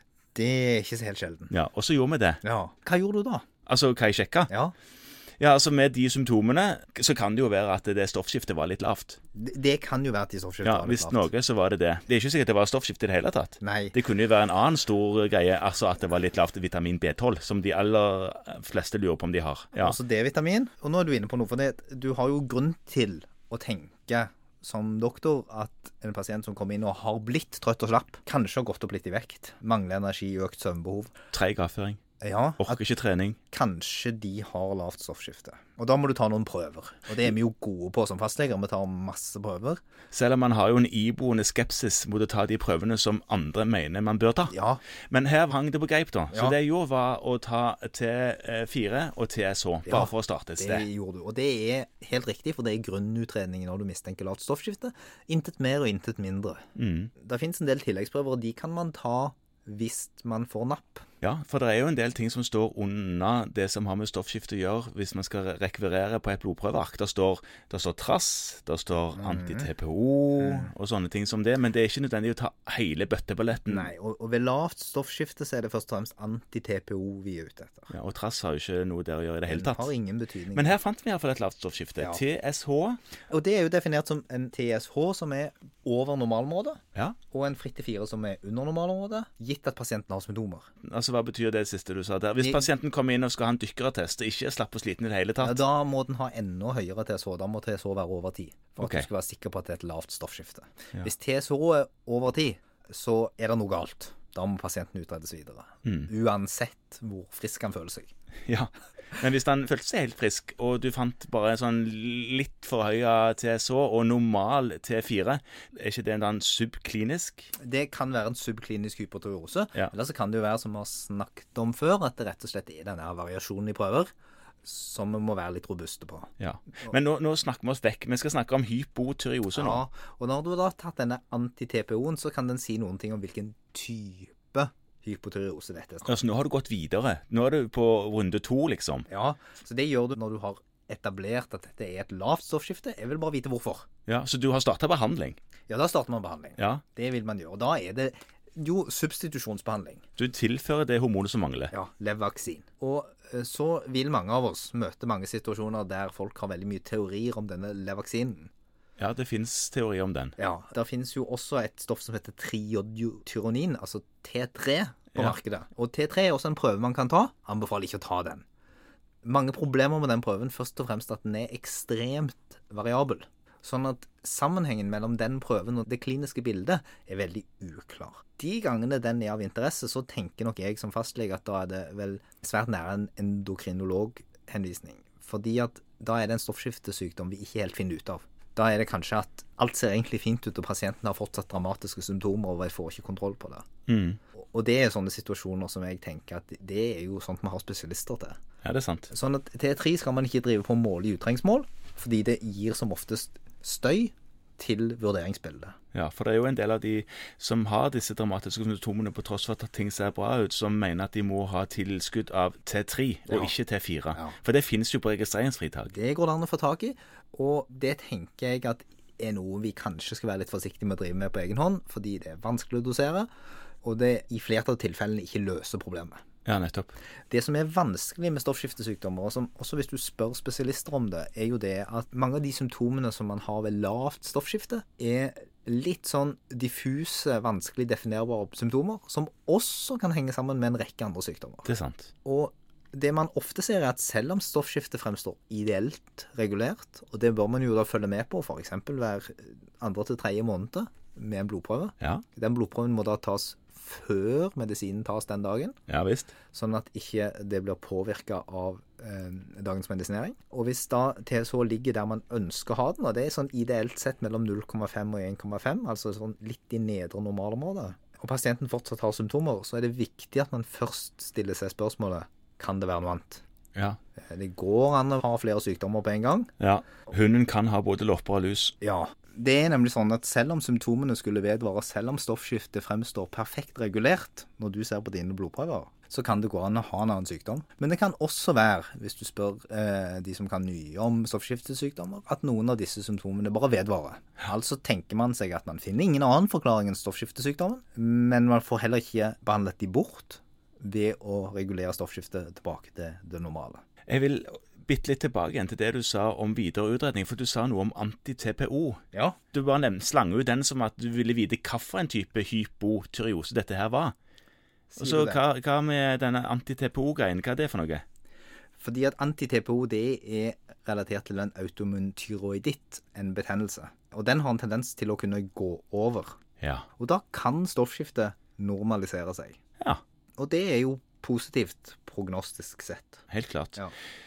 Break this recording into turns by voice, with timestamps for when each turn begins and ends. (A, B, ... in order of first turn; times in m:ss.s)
0:00.4-0:01.5 A
0:01.5-0:02.4 B
0:02.4-0:03.4 A
0:03.7-0:04.5 B
0:04.5-0:04.8 A
0:05.4-0:09.2 B
0:09.4-0:11.3 A
0:10.6-0:20.0 B
0:13.6-0:14.0 A
0:19.8-0:31.1 A
0:31.3-0:32.0 B
0:32.2-0:32.8 A
0:32.6-0:33.4 B
0:33.5-0:39.8 A
0:40.1-0:44.6 B
0:44.5-0:44.8 A
0:45.1-0:50.9 B
0:46.3-0:46.6 A
0:49.9-1:01.1 A
0:56.8-0:57.1 B
1:01.2-1:13.9 B
1:09.2-1:09.7 A
1:10.4-1:10.7 A
1:13.7-1:17.9 A
1:17.9-1:19.9 B
1:19.5-1:20.8 A
1:20.5-1:23.0 B
1:23.3-1:26.8 A
1:27.3-1:30.7 A
1:30.8-1:35.6 B
1:32.4-1:32.7 A
1:35.4-1:48.1 A
1:38.8-1:39.1 B
1:48.5-1:57.5 B
1:57.6-2:04.1 A
2:04.6-2:06.3 A
2:06.4-2:09.8 B
2:09.6-2:16.2 A
2:16.1-2:19.1 B
2:19.1-2:23.9 A
2:24.1-2:25.4 B
2:25.7-2:30.0 A
2:26.6-2:26.8 B
2:30.2-2:31.7 B
2:31.7-2:38.5 A
2:39.0-2:40.4 B
2:40.4-2:48.5 A
2:49.2-3:13.7 A
3:13.9-3:14.2 B
3:14.4-3:18.4 A
3:18.6-3:19.1 B
3:19.1-3:25.8 A
3:25.9-3:35.9 B
3:33.3-3:33.5 A
3:35.9-3:43.3 A
3:43.8-3:46.2 A
3:46.4-3:47.0 B
3:47.3-4:01.7 A
4:01.7-4:02.1 B
4:02.2-4:15.8 A
4:15.9-4:16.4 B
4:16.5-4:33.4 A
4:34.2-4:36.5 A
4:36.6-4:38.8 B
4:38.8-5:03.8 A
5:04.1-5:14.1 B
5:14.9-5:15.4 A
5:15.0-5:18.0 B
5:18.8-5:26.4 A
5:26.6-5:26.9 B
5:27.0-5:29.6 A
5:30.4-5:33.2 A
5:33.3-5:33.8 B